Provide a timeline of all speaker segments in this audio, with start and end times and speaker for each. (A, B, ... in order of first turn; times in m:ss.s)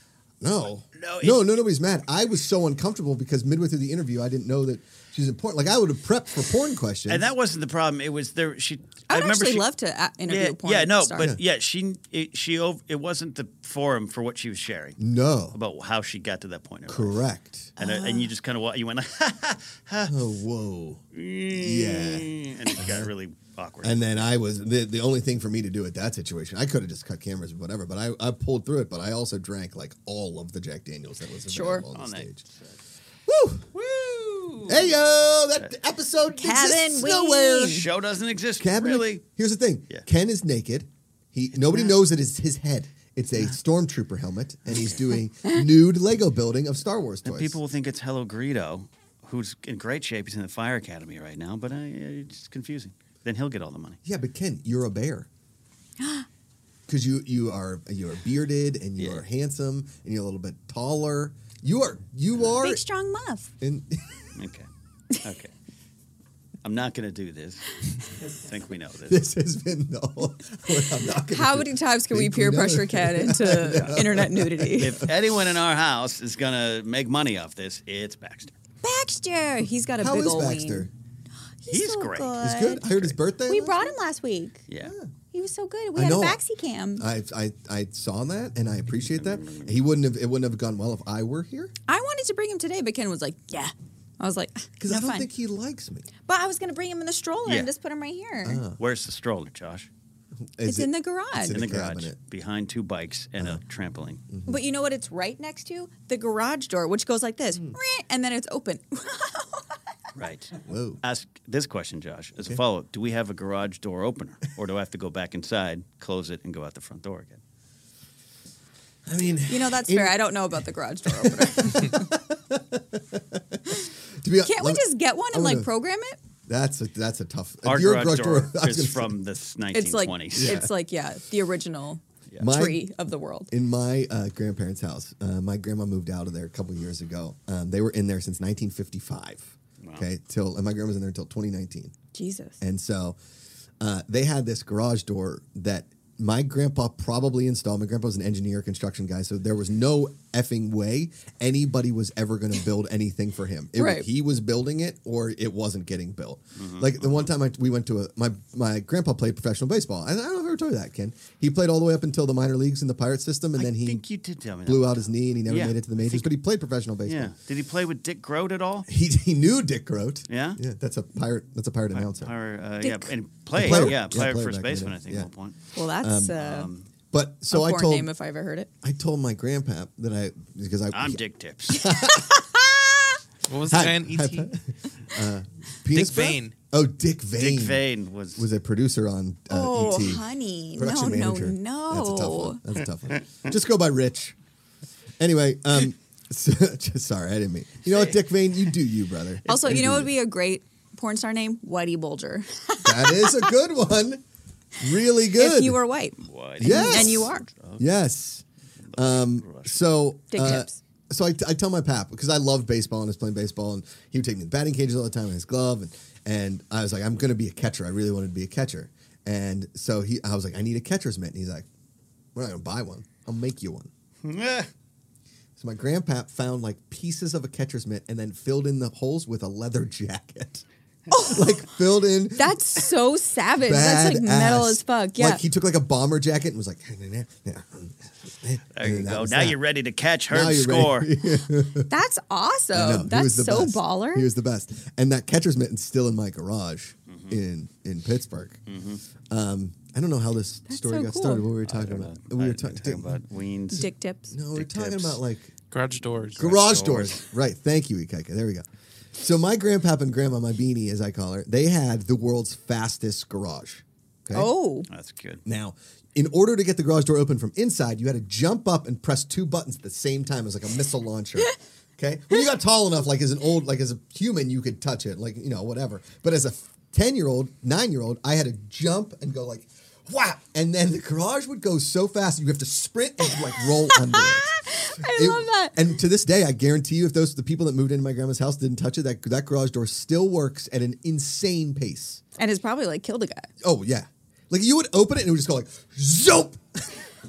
0:00.4-0:07.3 A
0:01.0-0:01.5 B
0:07.1-0:09.6 B
0:09.1-0:11.3 C
0:10.3-0:15.0 B
0:15.0-0:15.6 A
0:15.5-0:17.2 B
0:16.9-0:17.8 A
0:17.8-0:20.2 B
0:17.8-0:18.3 C
0:20.1-0:21.0 A
0:21.1-0:24.2 B
0:21.5-0:23.1 A
0:23.8-0:32.4 A
0:31.5-0:31.9 C
0:31.9-0:32.8 B
0:33.3-0:33.7 A
0:33.7-0:35.0 B
0:34.7-0:37.8 A
0:36.4-0:37.9 C
0:37.6-0:39.2 B
0:38.6-0:47.6 A
0:41.7-0:41.9 B
0:47.2-0:54.0 B
0:54.0-0:55.3 A
0:56.0-0:56.3 C
0:56.9-1:02.8 A
0:59.0-0:59.2 B
1:02.6-1:03.5 C
1:03.6-1:04.2 A
1:04.4-1:04.7 B
1:05.2-1:05.5 B
1:06.6-1:09.3 B
1:09.1-1:15.1 A
1:11.3-1:15.0 C
1:13.7-1:14.0 B
1:14.8-1:18.6 B
1:18.8-1:20.9 C
1:20.0-1:20.9 A
1:21.6-1:22.8 C
1:21.7-1:23.2 B
1:22.4-1:23.9 A
1:23.5-1:24.6 C
1:24.7-1:25.0 B
1:24.8-1:25.1 A
1:25.3-1:27.0 C
1:26.0-1:26.4 A
1:27.0-1:31.7 A
1:29.2-1:29.8 B
1:31.9-1:35.3 C
1:34.8-1:36.1 A
1:36.3-1:38.6 C
1:37.5-1:37.7 B
1:38.4-1:38.8 A
1:38.8-1:39.9 B
1:40.6-1:42.2 A
1:40.6-1:41.6 C
1:41.5-1:44.2 B
1:44.5-1:49.7 C
1:50.2-1:57.4 B
1:50.6-1:51.0 A
1:59.1-2:00.2 A
1:59.5-2:02.1 C
2:01.1-2:05.7 A
2:04.4-2:06.2 C
2:06.5-2:09.2 A
2:07.6-2:10.6 B
2:09.7-2:13.5 C
2:10.4-2:10.7 A
2:12.4-2:12.8 A
2:13.5-2:21.9 A
2:22.1-2:22.6 C
2:22.6-2:23.2 A
2:23.8-2:44.0 A
2:33.8-2:34.1 C
2:36.6-2:37.3 B
2:43.6-2:46.3 B
2:44.6-2:47.3 A
2:47.1-2:48.9 B
2:48.9-2:52.3 A
2:50.3-2:50.6 B
2:51.9-2:55.6 B
2:52.8-2:53.1 C
2:53.6-2:55.3 A
2:53.7-2:53.9 C
2:55.8-2:56.7 C
2:56.0-2:56.4 A
2:56.3-2:56.9 B
2:57.1-2:58.1 A
2:57.5-2:58.7 C
2:58.8-3:02.7 A
3:00.9-3:01.9 B
3:01.8-3:02.4 C
3:03.5-3:04.5 D
3:03.6-3:07.8 A
3:05.9-3:06.5 D
3:07.4-3:08.5 B
3:08.4-3:14.4 A
3:09.5-3:12.6 C
3:15.2-3:20.1 A
3:19.5-3:19.7 B
3:19.5-3:23.5 C
3:22.8-3:24.2 A
3:24.8-3:25.8 A
3:25.3-3:27.5 C
3:26.2-3:27.9 B
3:26.6-3:41.7 A
3:28.9-3:29.8 B
3:30.3-3:30.8 C
3:42.4-3:43.9 A
3:44.2-3:44.7 B
3:45.6-3:52.9 A
3:51.1-3:51.4 C
3:52.4-3:55.4 C
3:53.6-3:59.6 A
3:58.8-4:01.1 B
4:00.3-4:01.9 A
4:01.9-4:04.3 C
4:02.7-4:08.6 A
4:07.1-4:07.4 B
4:08.7-4:09.0 B
4:09.3-4:13.2 A
4:10.7-4:11.5 C
4:11.7-4:13.9 B
4:13.7-4:14.3 C
4:14.3-4:15.5 A
4:14.5-4:15.2 B
4:15.7-4:16.6 D
4:16.4-4:17.2 B
4:16.4-4:18.6 A
4:19.2-4:24.5 A
4:24.3-4:24.9 C
4:24.9-4:25.4 B
4:25.4-4:52.2 A
4:43.8-4:45.8 C
4:52.4-4:53.5 C
4:53.6-4:57.1 A